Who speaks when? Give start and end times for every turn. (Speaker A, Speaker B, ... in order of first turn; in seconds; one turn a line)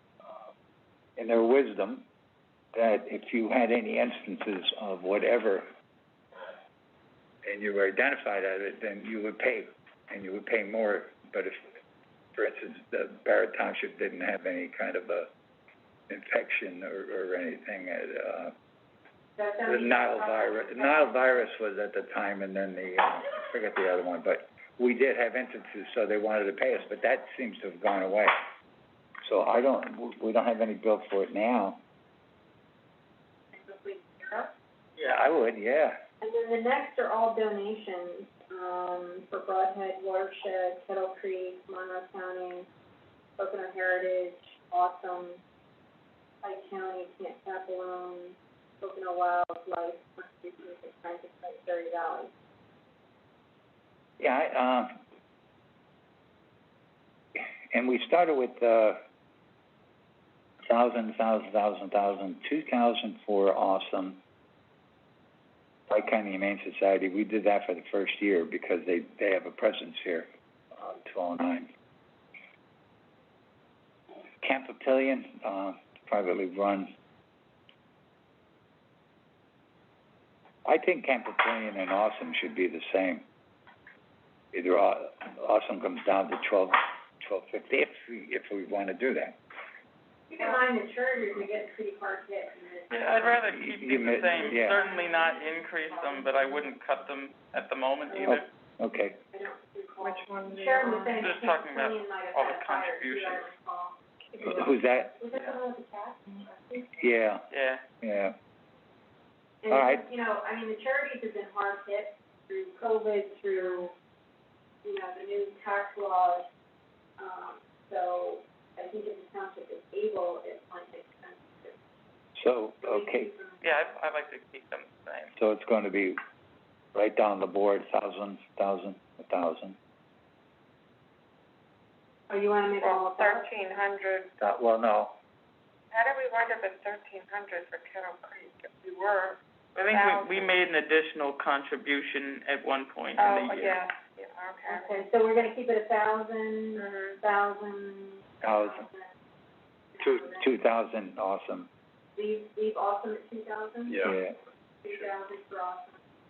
Speaker A: 1.2-2.0
Speaker A: 2.7-5.7
Speaker A: 7.4-11.6
Speaker A: 12.3-15.3
Speaker A: 16.1-18.5
Speaker B: 19.4-21.2
Speaker A: 19.6-28.4
Speaker A: 29.2-31.8
Speaker B: 33.5-34.5
Speaker A: 35.0-36.0
Speaker B: 36.2-42.7
Speaker B: 43.4-45.4
Speaker B: 46.4-52.3
Speaker A: 54.2-55.0
Speaker A: 57.7-59.0
Speaker A: 60.7-64.2
Speaker A: 65.9-71.7
Speaker A: 74.4-76.9
Speaker A: 80.6-83.2
Speaker A: 84.5-89.4
Speaker B: 90.3-96.4
Speaker C: 92.9-98.4
Speaker A: 93.5-94.8
Speaker B: 98.1-98.4
Speaker A: 98.2-99.2
Speaker B: 99.3-104.0
Speaker D: 100.0-101.3
Speaker C: 101.2-103.5
Speaker D: 104.4-104.7
Speaker A: 104.4-105.2
Speaker B: 105.2-107.0
Speaker A: 107.0-107.5
Speaker C: 107.5-107.8
Speaker A: 108.0-108.3
Speaker B: 109.6-113.9
Speaker A: 109.7-110.0
Speaker B: 114.8-116.5
Speaker B: 117.2-121.7
Speaker A: 122.4-123.3
Speaker B: 122.8-123.8
Speaker C: 123.6-125.3
Speaker A: 125.3-126.2
Speaker A: 126.9-129.8
Speaker B: 132.3-133.5
Speaker D: 132.8-134.3
Speaker A: 134.4-135.1
Speaker D: 135.9-140.5
Speaker C: 139.8-143.8
Speaker D: 143.2-145.1
Speaker B: 144.7-149.1
Speaker D: 146.8-147.2
Speaker A: 148.4-148.9
Speaker B: 149.9-150.5
Speaker A: 150.0-151.7
Speaker B: 152.2-154.2
Speaker A: 154.0-154.3
Speaker B: 154.8-156.0